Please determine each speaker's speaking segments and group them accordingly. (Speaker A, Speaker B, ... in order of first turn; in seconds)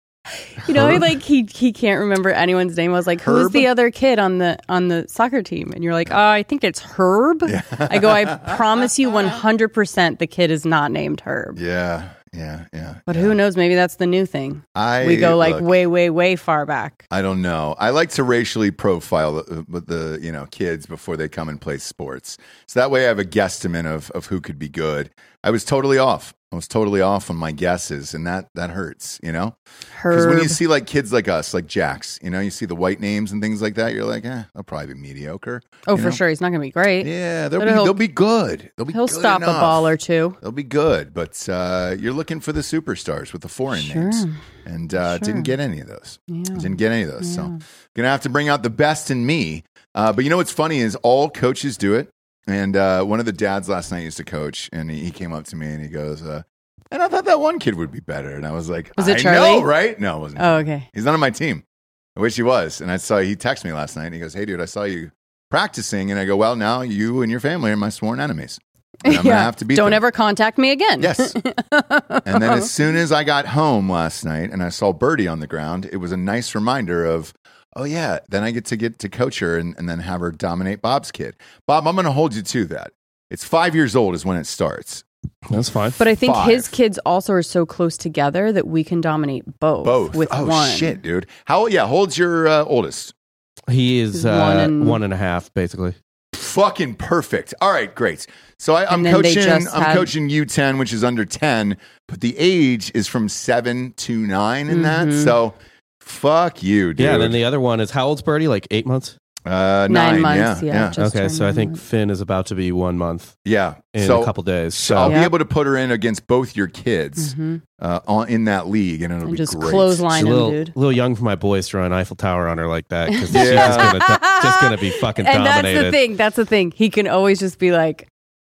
Speaker A: 0.6-11.6, 13.1-17.0, 29.9-30.6, 35.9-38.0, 38.9-40.4, 43.7-44.4, 45.0-45.5, 46.3-47.6, 59.0-59.7, 60.4-60.9, 69.0-72.7, 86.0-91.0, 94.1-95.0, 98.9-100.1, 104.7-105.3, 109.9-111.8, 115.0-115.3, 117.2-117.6, 119.2-120.7, 123.1-128.1
Speaker B: 0.6-1.1, 3.2-3.7, 7.5-8.6, 11.6-13.3, 14.7-15.7, 17.1-29.5, 30.1-36.2, 37.0-61.6, 62.1-70.0, 71.0-71.3, 72.2-85.0, 86.0-86.7, 89.8-93.1, 96.3-107.4, 109.5-110.9, 113.4-120.3, 123.3-123.9
Speaker C: 85.5-86.0, 93.7-95.9, 107.0-109.2, 111.0-113.4, 113.9-115.2, 120.1-126.0